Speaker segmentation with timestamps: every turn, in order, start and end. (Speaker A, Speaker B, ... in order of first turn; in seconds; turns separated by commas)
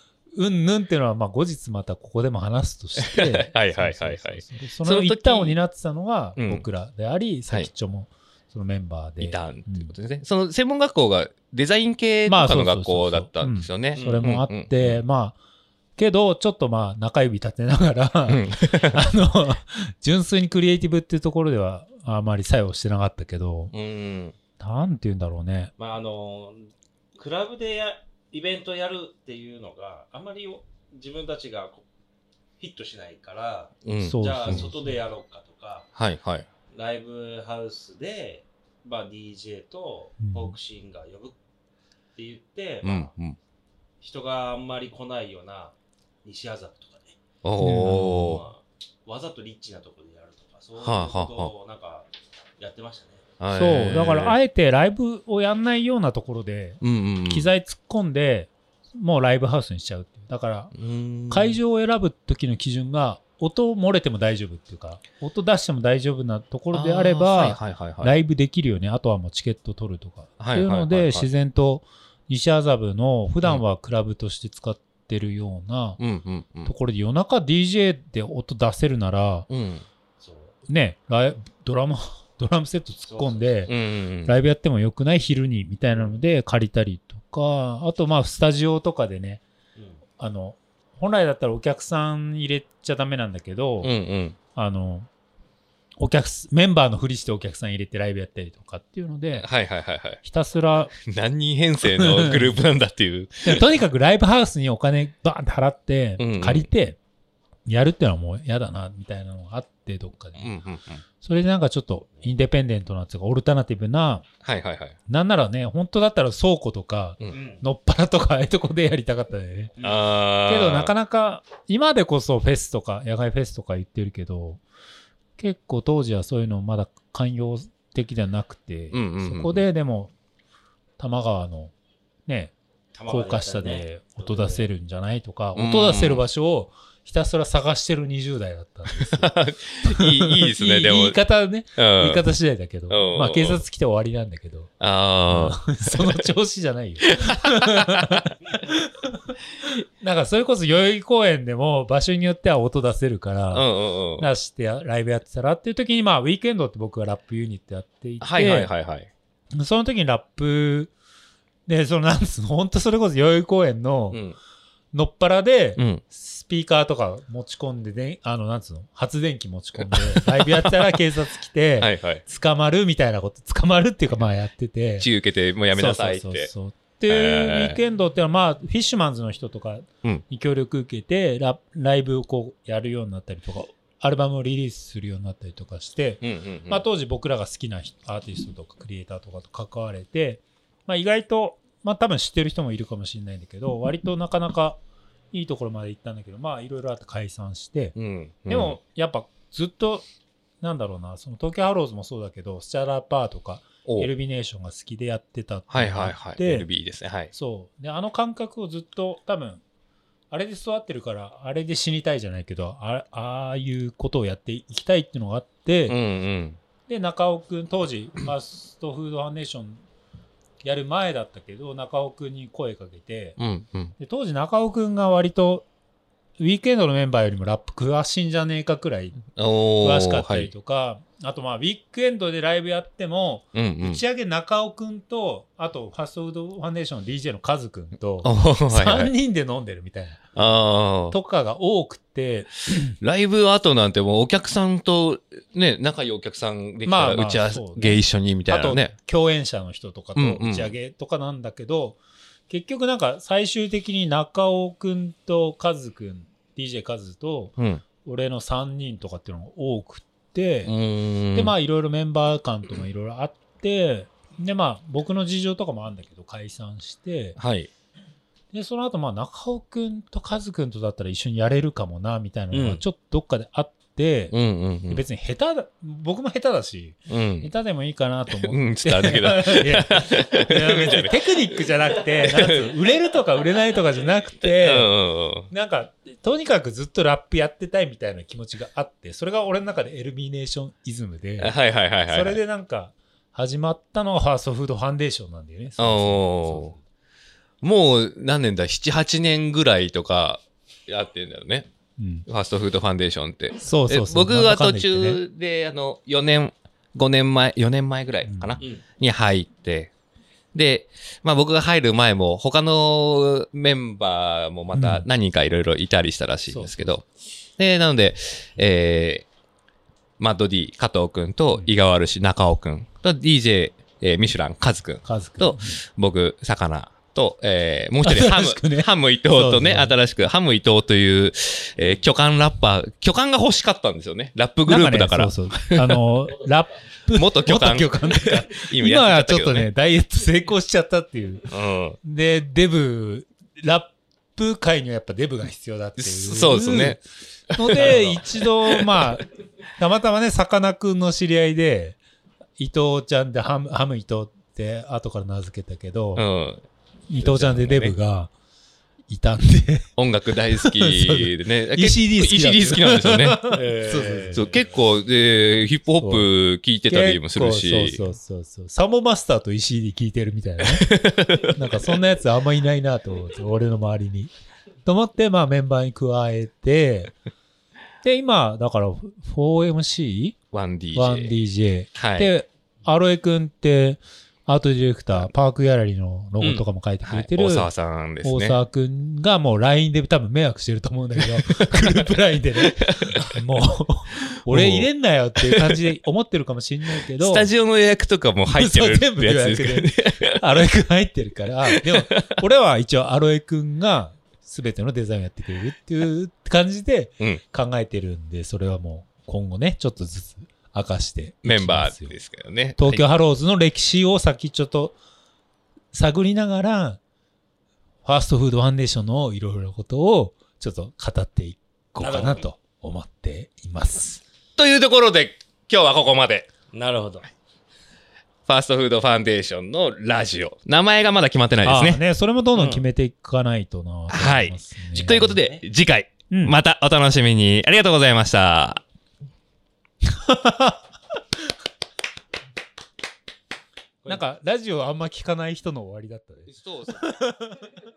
Speaker A: 0.3-9.9, Speaker B: 3.0-5.6, Speaker B: 6.4-6.7, Speaker B: 9.2-15.0, Speaker A: 12.3-15.4, Speaker C: 13.9-14.3, Speaker A: 16.0-23.7, Speaker B: 18.3-19.0, Speaker B: 23.7-24.3, Speaker A: 24.6-25.7, Speaker C: 25.8-31.9, Speaker C: 32.6-35.9, Speaker B: 33.8-34.7, Speaker A: 34.0-35.0, Speaker B: 36.0-36.5, Speaker C: 36.7-41.4, Speaker A: 40.2-40.5, Speaker C: 42.1-43.1, Speaker B: 42.8-43.4, Speaker C: 44.0-47.2, Speaker B: 47.4-48.4, Speaker A: 47.6-48.4, Speaker C: 48.1-53.2, Speaker B: 50.8-51.5, Speaker B: 53.4-54.4, Speaker A: 53.5-60.7, Speaker B: 56.8-57.5, Speaker B: 60.7-61.6, Speaker A: 61.3-76.0, Speaker B: 66.7-68.1, Speaker B: 70.4-71.3, Speaker B: 76.0-76.7, Speaker A: 76.7-79.5, Speaker B: 79.5-79.8, Speaker C: 80.2-80.6, Speaker A: 80.7-89.4, Speaker C: 83.0-83.7, Speaker B: 83.7-84.3, Speaker C: 85.9-86.2, Speaker C: 89.8-90.0, Speaker A: 90.2-93.9, Speaker B: 93.8-94.3, Speaker A: 94.5-95.1, Speaker A: 96.0-99.5, Speaker B: 99.3-100.2, Speaker A: 100.2-100.9, Speaker B: 101.0-103.6, Speaker A: 101.8-102.6, Speaker A: 103.4-107.0, Speaker B: 106.2-106.7, Speaker A: 107.7-110.5, Speaker B: 110.4-111.0, Speaker A: 111.2-114.2, Speaker B: 114.4-115.0, Speaker A: 115.1-119.7, Speaker C: 117.3-117.6, Speaker C: 119.8-120.0, Speaker B: 119.8-120.9, Speaker A: 120.5-124.6, Speaker A: 125.4-130.1, Speaker B: 128.9-129.6, Speaker A: 131.0-131.7, Speaker A: 132.3-132.5, Speaker C: 132.9-134.7, Speaker A: 133.1-144.7, Speaker B: 135.6-136.2, Speaker B: 139.0-141.2, Speaker B: 141.8-142.2, Speaker B: 142.9-143.6, Speaker B: 144.8-146.2, Speaker A: 145.3-149.1, Speaker B: 147.0-147.9, Speaker A: 150.0-158.7, Speaker B: 153.5-154.3, Speaker B: 158.2-159.1, Speaker A: 159.6-160.9, Speaker A: 161.7-164.2, Speaker B: 164.1-164.4, Speaker A: 164.9-175.1, Speaker B: 165.8-166.0, Speaker B: 169.8-171.0, Speaker B: 171.8-172.2, Speaker B: 175.0-176.5, Speaker A: 175.7-194.8, Speaker B: 177.1-177.8, Speaker B: 186.2-186.8, Speaker A: 195.3-197.9, Speaker B: 197.9-198.8, Speaker A: 198.5-200.0, Speaker A: 200.6-206.7, Speaker B: 203.8-204.1, Speaker B: 205.7-207.3, Speaker A: 207.3-209.6, Speaker A: 210.3-216.0, Speaker B: 215.9-216.6, Speaker A: 216.9-219.8, Speaker A: 220.6-223.4, Speaker B: 223.4-223.9, Speaker A: 224.0-225.7, Speaker A: 226.4-229.2, Speaker B: 229.3-230.5, Speaker A: 229.8-243.0, Speaker B: 233.5-234.0, Speaker B: 238.2-239.1, Speaker B: 240.3-241.2, Speaker B: 243.0-248.9, Speaker A: 246.8-260.7, Speaker B: 250.2-250.8, Speaker B: 257.6-257.8, Speaker B: 260.6-261.5, Speaker A: 261.3-267.4, Speaker B: 267.4-267.7, Speaker A: 268.5-274.3, Speaker C: 272.5-272.8, Speaker B: 274.3-275.0, Speaker A: 274.9-284.9, Speaker B: 277.1-277.5, Speaker B: 278.4-281.1, Speaker B: 284.5-285.5, Speaker A: 285.5-296.8, Speaker B: 291.4-292.4, Speaker B: 295.8-296.7, Speaker B: 297.6-301.7, Speaker A: 302.0-302.2, Speaker B: 302.2-309.9, Speaker A: 303.6-305.2, Speaker A: 308.2-308.6, Speaker B: 310.5-317.0, Speaker A: 314.7-315.0, Speaker A: 316.5-317.0, Speaker B: 317.6-319.2, Speaker B: 320.2-335.8, Speaker A: 325.0-325.8, Speaker A: 328.0-329.9, Speaker A: 334.6-341.5, Speaker B: 337.1-339.7, Speaker B: 341.5-342.0, Speaker A: 342.0-347.0, Speaker B: 346.0-347.0, Speaker B: 347.5-348.3, Speaker A: 347.5-349.2, Speaker A: 349.8-352.0, Speaker A: 352.6-356.2, Speaker B: 356.1-356.6, Speaker A: 357.1-358.3, Speaker B: 357.2-357.9, Speaker A: 359.1-359.9, Speaker B: 360.0-363.4, Speaker A: 360.5-364.5, Speaker C: 363.5-364.7, Speaker B: 364.3-368.0, Speaker A: 366.0-366.3, Speaker A: 366.9-374.3, Speaker B: 370.8-371.6, Speaker A: 374.8-377.1, Speaker A: 378.0-380.4, Speaker B: 380.5-381.4, Speaker A: 380.9-387.7, Speaker B: 381.9-382.3, Speaker B: 386.4-388.6, Speaker A: 388.2-397.5, Speaker B: 391.5-393.3, Speaker B: 394.5-395.8, Speaker B: 397.1-400.4, Speaker A: 398.4-412.1, Speaker B: 401.7-402.2, Speaker B: 411.4-413.0, Speaker A: 412.8-414.9, Speaker A: 415.9-417.0, Speaker A: 418.0-424.2, Speaker C: 422.0-422.4, Speaker B: 424.6-426.5, Speaker C: 426.7-427.3, Speaker B: 428.4-432.0, Speaker A: 431.6-435.4, Speaker B: 432.6-432.8, Speaker B: 434.1-438.8, Speaker C: 435.2-435.6, Speaker A: 436.3-436.6, Speaker A: 440.0-440.9, Speaker A: 444.1-447.7, Speaker B: 446.5-447.1